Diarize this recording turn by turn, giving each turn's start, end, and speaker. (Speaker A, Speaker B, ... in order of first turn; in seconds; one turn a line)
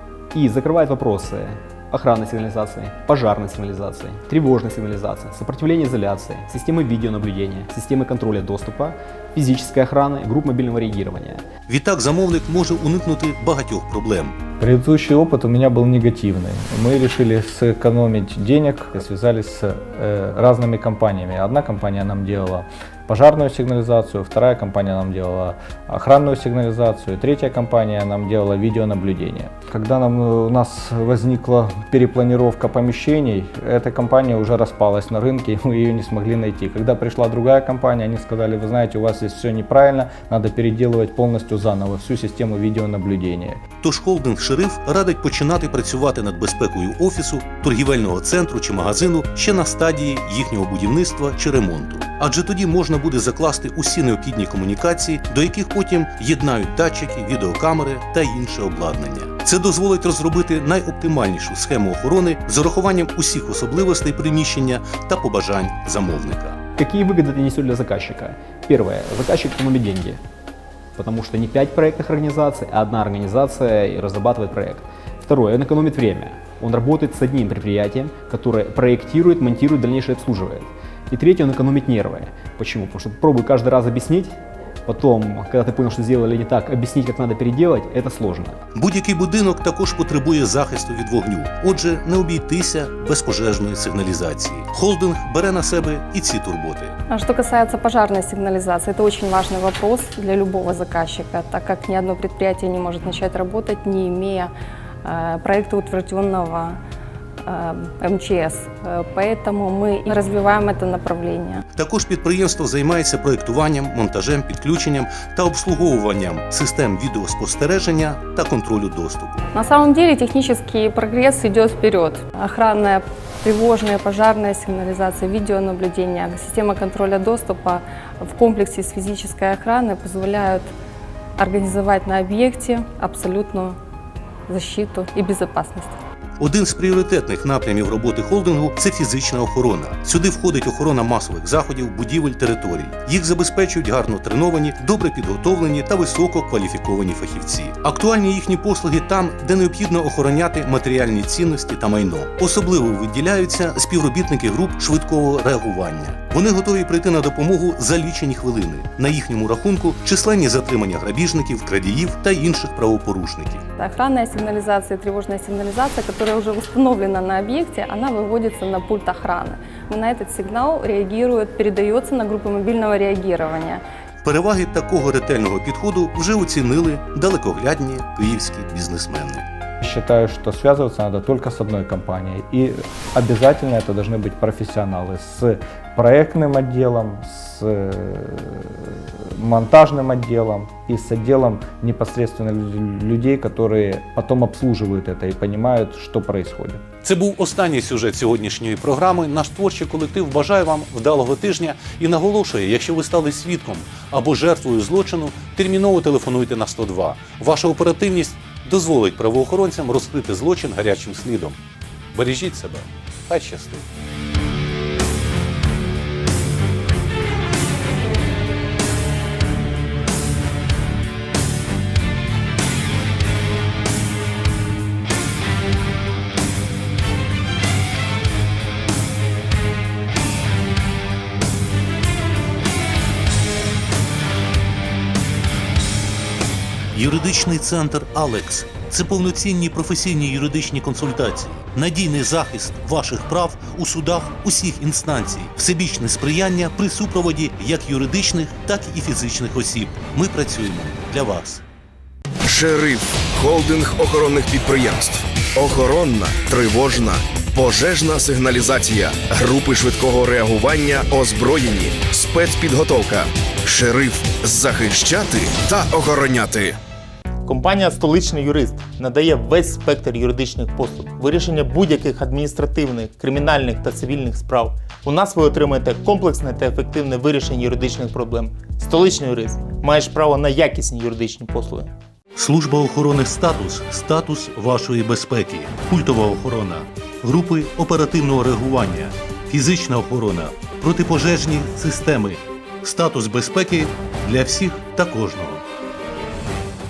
Speaker A: 0.3-11.4
Speaker B: 11.7-14.4
Speaker C: 14.6-43.6
Speaker B: 43.8-66.6
Speaker A: 66.8-70.2
Speaker A: 71.0-84.3
Speaker A: 84.8-88.6
Speaker B: 88.7-96.9
Speaker D: 97.1-104.5
Speaker D: 105.0-106.8
Speaker D: 107.4-111.6
Speaker B: 111.7-119.4
Speaker D: 119.5-130.7
Speaker D: 131.4-133.8
Speaker D: 134.5-135.9
Speaker B: 136.4-163.6
Speaker D: 163.8-173.8
Speaker B: 174.2-179.4
Speaker C: 179.8-196.8
Speaker B: 197.0-211.6
Speaker B: 212.1-213.8
Speaker B: 236.9-251.6
Speaker E: 252.4-266.8
Speaker F: 267.4-281.9
Speaker B: 282.4-295.6